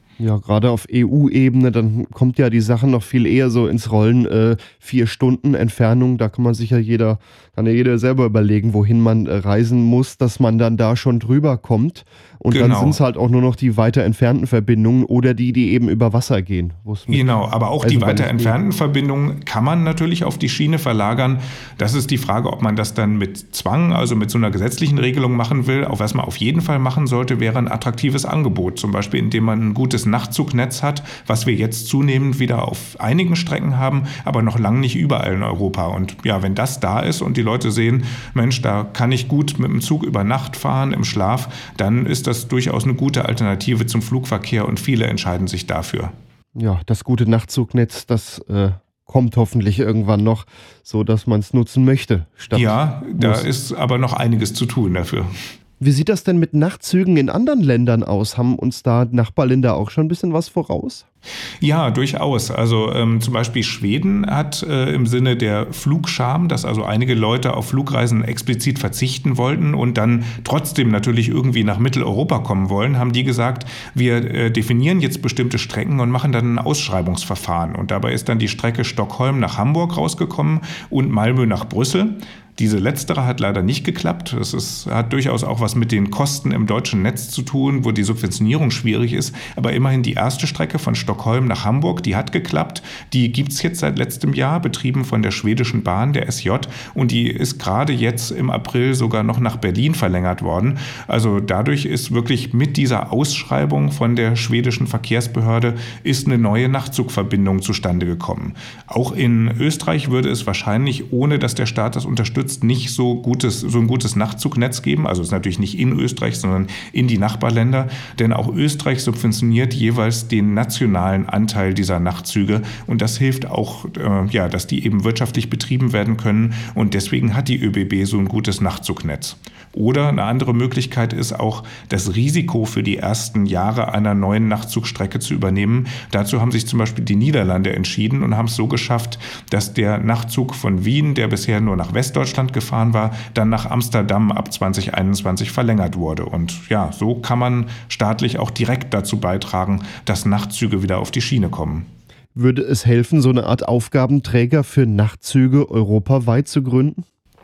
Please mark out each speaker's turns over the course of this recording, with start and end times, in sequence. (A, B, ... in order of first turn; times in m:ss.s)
0:00.2-0:18.6 A
0:12.5-0:13.0 B
0:17.1-0:46.1 B
0:46.6-0:53.4 A
0:52.5-0:55.3 B
0:55.8-1:01.0 A
1:01.6-2:31.9 B
2:32.4-2:37.1 A